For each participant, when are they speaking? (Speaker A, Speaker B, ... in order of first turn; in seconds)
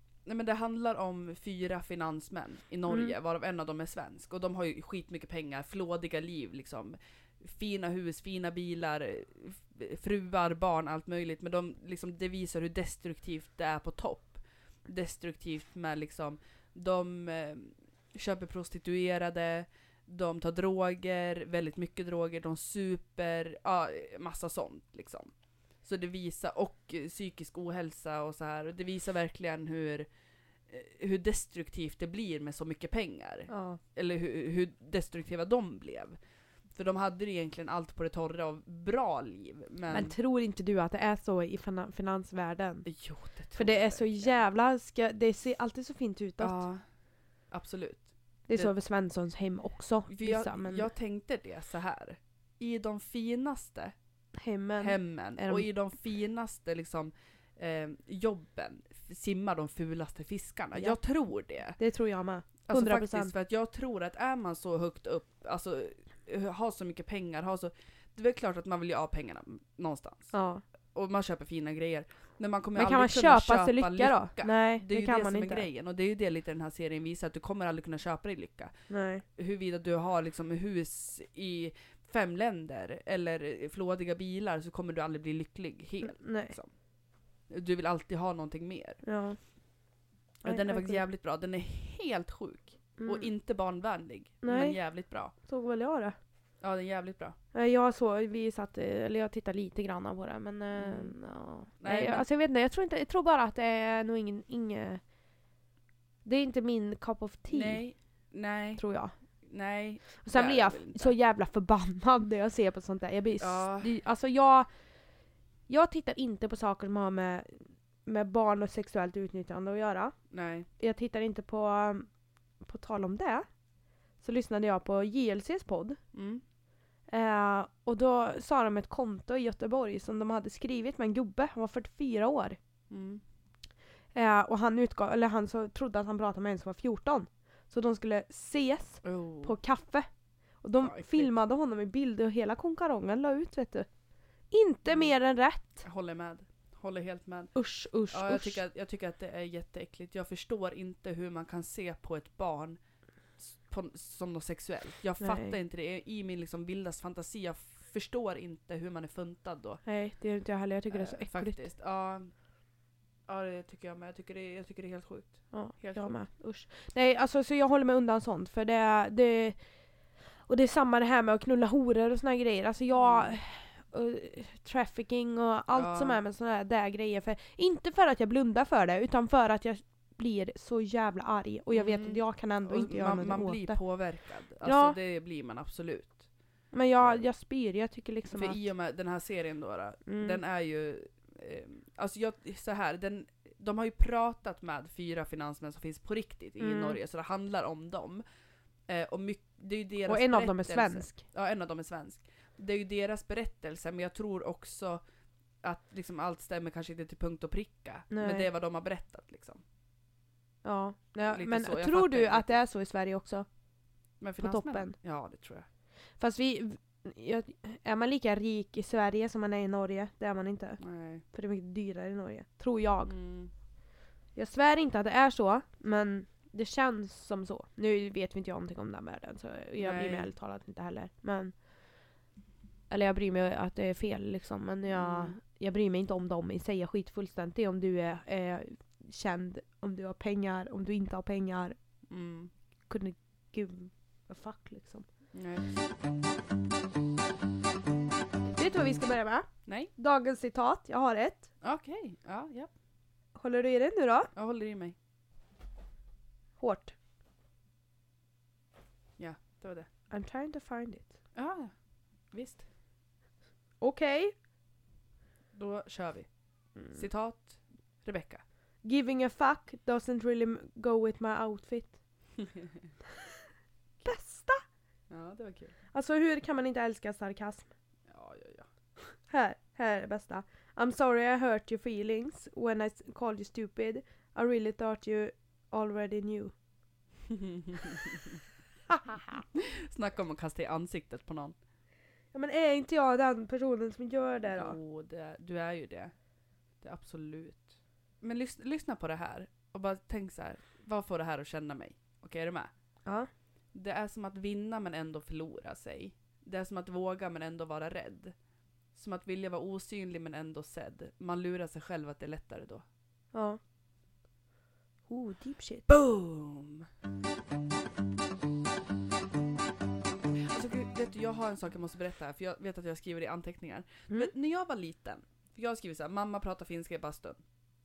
Speaker A: 0.2-25.3, 25.8-30.1, 30.7-36.2, 36.7-40.1, 42.8-44.4, 46.4-46.8, 47.5-48.7, 50.1-53.9, 54.8-61.8, 62.7-70.3, 70.9-78.7, 79.3-86.7, 87.5-89.0, 90.4-95.3, 96.6-97.3, 100.8-101.1, 101.8-102.2, 107.5-108.8, 109.4-111.1, 113.4-113.9, 120.3-120.7, 126.1-126.4, 132.9-133.2, 139.0-139.6, 140.8-141.3, 144.9-145.1, 145.8-147.5, 148.1-152.8, 153.4-159.8, 160.9-162.3, 163.3-166.2, 173.0-173.4, 175.7-176.2, 181.7-186.2, 188.3-198.2, 198.9-205.0, 205.6-209.6, 211.2-212.5, 214.2-215.7, 220.8-221.2, 223.1-223.5, 229.8-230.3, 234.9-235.3, 242.1-242.5, 245.3-245.7, 249.7-249.9, 251.6-252.7, 254.3-254.9, 259.2-259.9, 261.3-261.7, 262.3-262.6, 265.5-266.3, 266.9-268.4, 272.4-272.7, 275.1-275.7, 278.1-278.7, 287.3-288.4, 289.5-291.5, 294.5-296.1, 296.8-302.7, 303.7-308.3, 308.9-312.8, 315.9-316.9, 320.4-327.4
Speaker B: 2.9-3.1, 33.5-33.8, 39.9-42.9, 43.5-46.6, 48.5-50.9, 54.4-55.7, 61.8-63.3, 70.3-70.6, 72.8-75.7, 78.9-79.2, 86.0-86.6, 89.0-89.4, 90.4-91.0, 93.0-93.3, 94.4-94.8, 95.5-96.1, 97.5-105.0, 106.2-107.8, 108.8-109.1, 110.2-114.7, 115.7-120.1, 120.8-122.1, 122.6-123.5, 124.2-126.0, 127.1-132.6, 134.1-140.1, 140.6-143.9, 144.5-145.8, 147.5-148.6, 155.2-155.6, 159.8-161.6, 165.5-169.6, 170.5-183.8, 184.6-185.0, 186.7-188.6, 190.1-190.4, 196.6-197.0, 200.1-201.2, 208.1-208.5, 210.6-213.4, 214.4-214.9, 216.2-220.8, 221.3-223.1, 224.3-231.5, 232.9-241.8, 242.9-245.1, 248.6-251.5, 253.3-254.3, 256.6-256.9, 260.1-261.1, 263.8-264.3, 268.8-272.0, 274.0-274.6, 275.9-277.7, 279.3-286.5, 288.9-289.4, 292.3-294.8, 313.3-313.6, 315.1-315.9